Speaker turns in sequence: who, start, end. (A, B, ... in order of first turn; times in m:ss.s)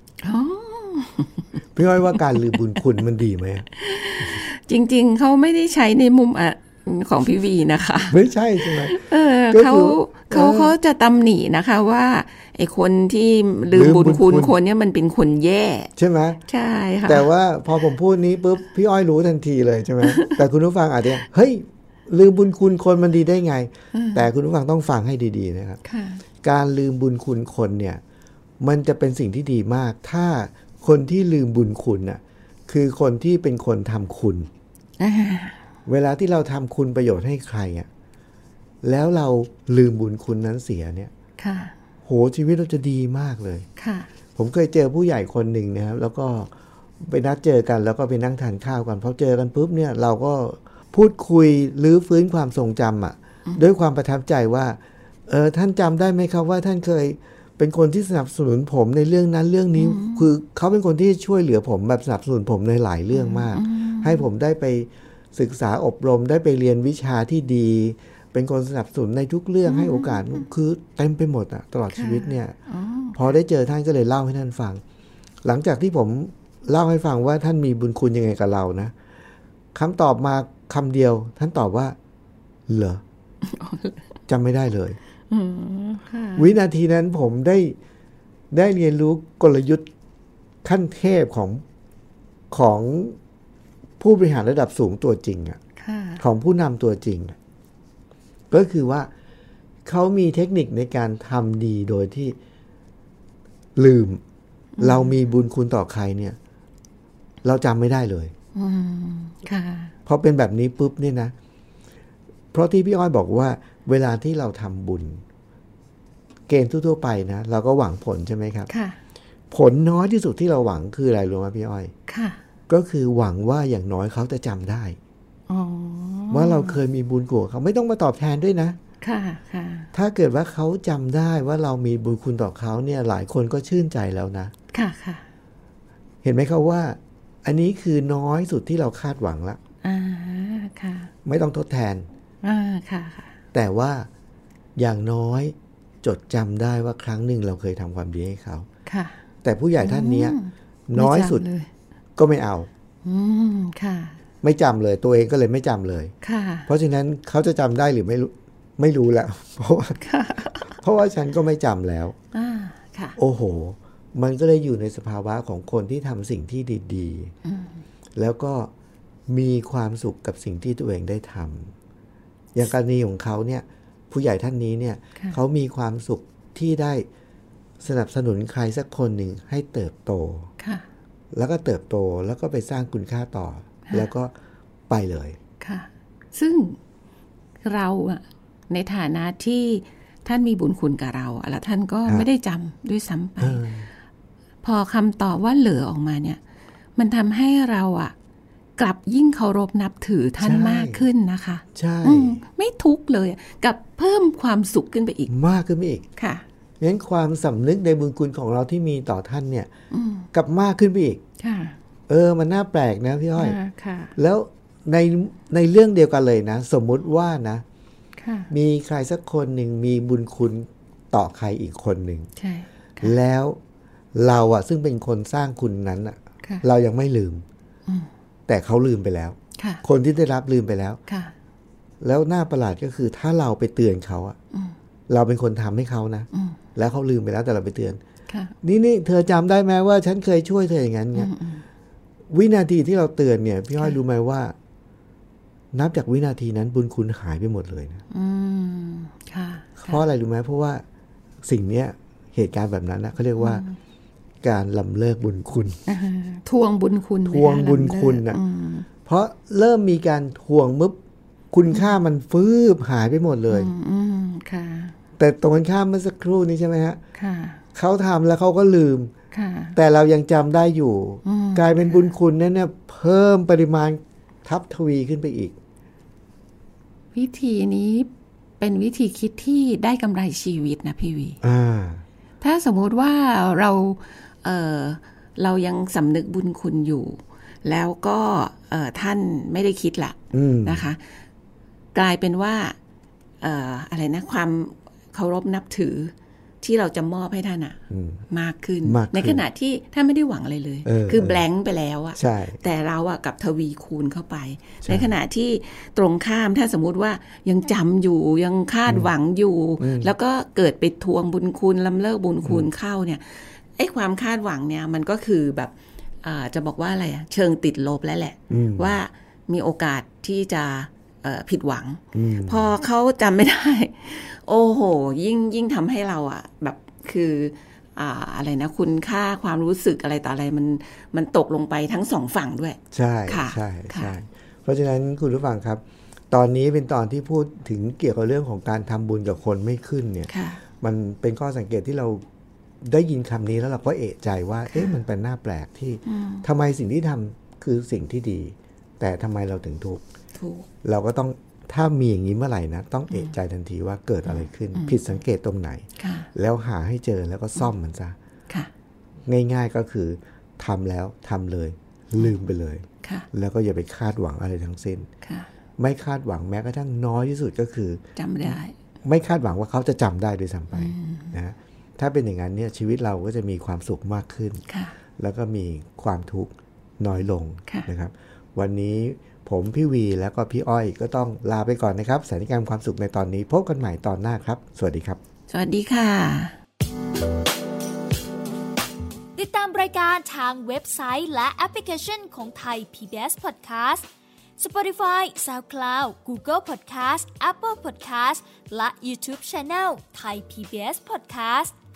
0:00.2-0:01.5 A
0:01.7-0:03.7 B
0:02.1-0:02.6 A
0:03.8-0:15.9 A
0:08.1-0:10.8 B
0:13.7-0:14.6 B
0:16.0-0:16.4 B
0:16.5-0:17.3 A
0:17.0-0:25.8 B
0:20.0-0:20.4 A
0:23.9-0:24.3 A
0:25.8-0:26.2 A
0:26.4-0:28.0 B
0:28.6-0:34.5 B
0:35.0-0:35.6 A
0:35.9-0:37.9 B
0:38.8-0:41.1 B
0:41.4-0:41.7 A
0:42.0-0:43.7 B
0:43.8-0:44.1 A
0:44.4-1:12.6 B
0:59.7-1:00.3 A
1:03.1-1:04.2 A
1:09.6-1:10.4 A
1:11.9-1:13.2 A
1:13.1-1:14.8 B
1:15.4-1:18.9 B
1:19.7-1:22.0 B
1:22.7-1:23.0 B
1:23.4-1:24.1 A
1:24.3-1:25.0 B
1:25.3-1:26.5 A
1:26.4-1:27.8 B
1:28.5-1:29.9 B
1:30.6-1:31.6 B
1:32.5-1:33.2 B
1:34.0-1:35.6 B
1:35.8-1:36.2 A
1:36.2-1:37.4 B
1:38.5-1:39.1 B
1:39.8-1:42.4 B
1:43.8-1:44.2 B
1:44.8-1:45.1 A
1:44.8-1:46.4 B
1:47.4-1:48.3 B
1:48.5-1:49.9 A
1:50.0-1:51.3 B
1:52.5-1:55.2 B
1:56.5-1:58.7 B
1:58.7-1:59.0 A
1:59.5-2:01.9 B
2:02.1-2:02.4 A
2:02.7-2:05.0 B
2:05.5-2:06.8 A
2:06.3-2:08.8 B
2:09.0-2:09.9 A
2:09.9-2:14.5 B
2:14.7-2:15.2 A
2:16.2-2:19.6 B
2:19.8-2:21.1 A
2:21.2-2:22.1 B
2:22.4-2:23.4 A
2:23.5-2:24.1 B
2:24.8-2:28.7 B
2:28.8-2:29.2 A
2:29.4-2:31.4 B
2:29.8-2:31.7 A
2:32.2-2:32.7 B
2:33.0-2:34.2 A
2:34.4-2:36.1 B
2:36.2-2:36.7 A
2:36.7-2:40.0 B
2:40.0-2:40.7 A
2:40.7-2:42.2 B
2:42.3-2:43.2 A
2:43.2-2:47.3 B
2:47.4-2:47.8 A
2:48.2-2:48.7 B
2:49.3-2:51.7 B
2:52.5-2:57.0 B
2:57.8-3:00.5 B
3:00.6-3:00.8 A
3:01.3-3:04.3 B
3:04.9-3:05.4 B
3:05.6-3:06.8 A
3:07.6-3:13.7 A
3:13.4-3:13.9 B
3:14.6-3:16.4 A
3:17.0-3:18.1 A
3:18.8-3:25.3 A
3:20.4-3:21.0 B
3:21.7-3:22.4 B
3:25.3-3:26.0 B
3:26.2-3:26.4 A
3:26.8-3:29.7 B
3:29.9-3:30.3 A
3:30.3-3:31.2 B
3:31.4-3:31.8 A
3:32.1-3:33.6 B
3:33.4-3:34.1 A
3:34.2-3:37.6 B
3:38.2-3:38.5 A
3:38.5-3:42.3 B
3:42.4-3:43.1 A
3:43.0-3:43.6 B
3:44.1-3:47.4 B
3:48.5-3:51.0 B
3:49.6-3:49.8 A
3:51.1-3:51.3 A
3:52.0-3:54.4 B
3:55.1-3:58.0 B
3:56.3-3:56.6 A
3:58.3-3:58.5 A
3:58.6-4:01.3 B
4:01.1-4:01.6 A
4:02.3-4:04.5 B
4:05.7-4:08.0 B
4:08.1-4:10.0 A
4:09.8-4:10.8 B
4:11.4-4:13.6 B
4:13.4-4:13.8 A
4:14.4-4:15.8 B
4:15.9-4:18.9 A
4:17.2-4:18.4 B
4:19.0-4:21.0 B
4:21.5-4:23.7 B
4:23.5-4:25.0 A
4:25.2-4:27.0 B
4:27.1-4:27.6 A
4:27.7-4:29.1 B
4:29.3-4:29.8 A
4:29.7-4:35.6 B
4:31.2-4:32.1 A
4:37.1-4:38.1 A
4:38.6-4:41.4 A
4:41.4-4:42.0 B
4:42.4-4:51.0 A
4:50.3-4:50.8 B
4:51.9-4:52.8 A
4:53.4-5:34.1 A
4:57.9-4:58.2 B
4:58.8-4:59.4 B
5:00.8-5:01.4 B
5:02.2-5:02.6 B
5:04.8-5:05.1 B
5:09.8-5:10.1 B
5:18.5-5:19.0 B
5:22.1-5:22.7 B
5:32.9-5:42.2 B
5:40.3-5:40.6 A
5:42.8-5:50.0 B
5:46.0-5:46.4 A
5:50.4-5:50.7 A
5:50.8-5:58.2 B
5:54.3-5:55.0 A
5:56.0-5:56.3 A
5:59.3-6:05.1 B
6:03.0-6:03.3 A
6:05.2-6:05.5 A
6:05.8-6:08.5 B
6:08.2-6:08.7 A
6:09.0-6:14.6 B
6:10.7-6:11.3 A
6:14.7-6:14.9 A
6:15.2-6:25.2 B
6:25.5-6:26.6 A
6:29.4-6:34.0 C
6:34.6-6:41.7 C